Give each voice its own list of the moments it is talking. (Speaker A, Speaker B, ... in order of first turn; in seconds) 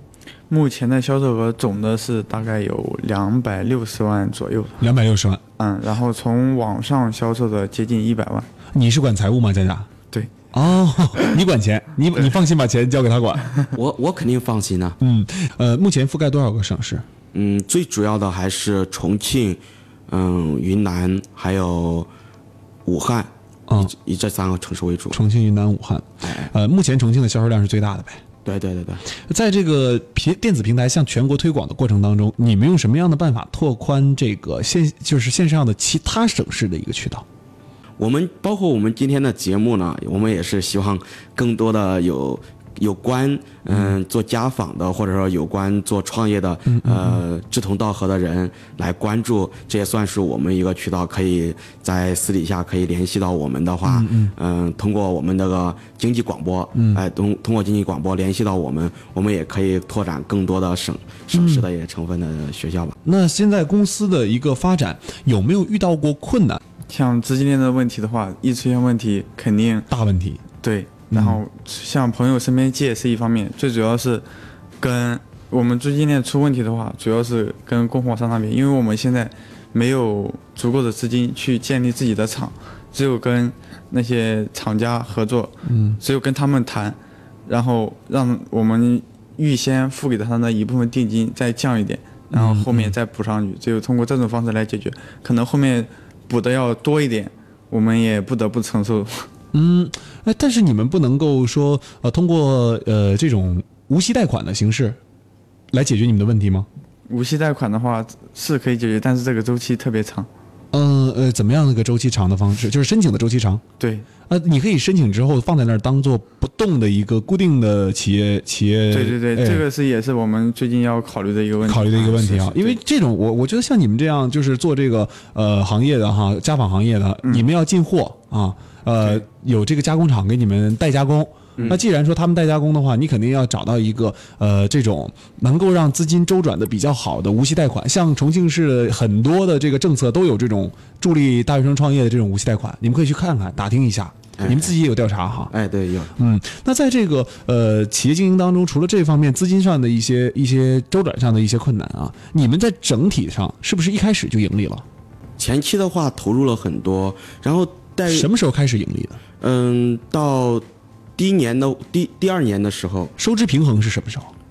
Speaker A: 0.5-4.8, 5.6-8.5, 66.9-69.9, 70.6-74.2, 74.8-99.3, 107.1-110.3, 113.8-114.1, 118.9-122.8, 131.6-131.8
Speaker B: 4.8-5.4, 8.7-9.9, 10.5-13.5, 15.0-17.1, 25.1-28.2, 29.3-37.2, 43.7-43.9, 46.7-47.2, 53.9-54.3, 56.8-57.0, 61.3-61.7, 63.0-66.6, 69.9-70.4, 71.1-71.4, 85.7-86.0, 92.3-93.0, 99.5-105.0, 105.7-106.7, 110.7-113.6, 114.3-119.7, 121.7-145.5, 146.2-154.8, 158.1-159.2, 163.2-164.3
Speaker C: 13.7-15.0, 17.3-22.1, 22.9-25.2, 26.2-26.5, 28.4-29.0, 38.0-63.0, 144.4-144.7, 145.5-146.1, 155.4-158.3, 159.4-160.7, 161.2-163.1